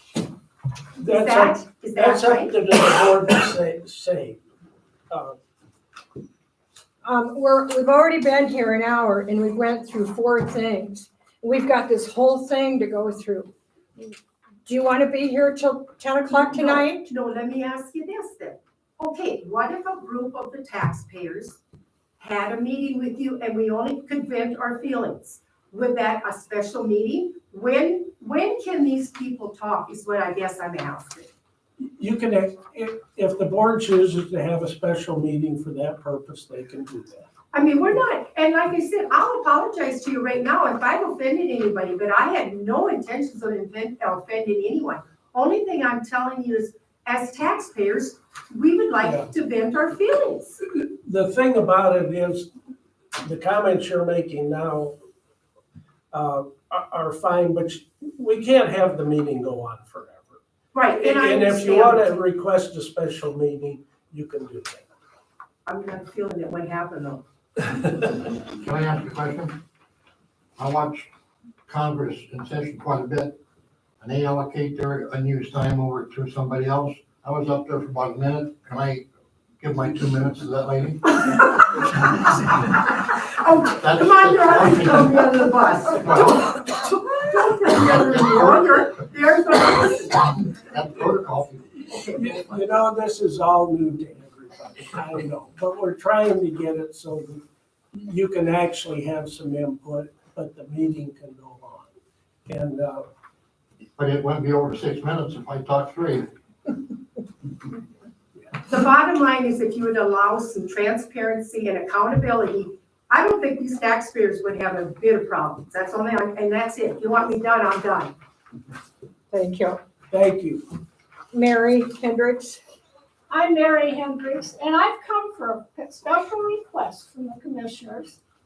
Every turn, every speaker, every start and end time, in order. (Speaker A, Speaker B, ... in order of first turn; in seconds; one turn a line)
Speaker A: 1.0-4.4
Speaker B: 1.0-2.6
Speaker A: 5.1-5.4
Speaker C: 7.0-13.5
Speaker C: 14.7-17.1
Speaker B: 16.3-21.6
Speaker B: 22.2-31.3
Speaker A: 31.8-37.3
Speaker B: 37.5-50.6
Speaker A: 49.0-49.3
Speaker A: 50.7-52.5
Speaker A: 53.2-55.0
Speaker A: 56.1-60.4
Speaker B: 60.7-62.1
Speaker A: 61.0-64.9
Speaker B: 65.7-67.2
Speaker D: 68.6-69.6
Speaker D: 70.6-71.1
Speaker D: 71.7-73.4
Speaker D: 74.0-79.1
Speaker D: 79.6-81.0
Speaker B: 81.3-90.3
Speaker D: 83.8-85.2
Speaker D: 86.0-86.4
Speaker D: 88.1-88.8
Speaker D: 90.5-92.1
Speaker A: 92.0-101.9
Speaker A: 102.5-103.1
Speaker D: 104.0-106.3
Speaker B: 108.7-118.1
Speaker C: 119.3-119.8
Speaker A: 120.1-120.6
Speaker C: 121.3-122.6
Speaker E: 123.3-128.2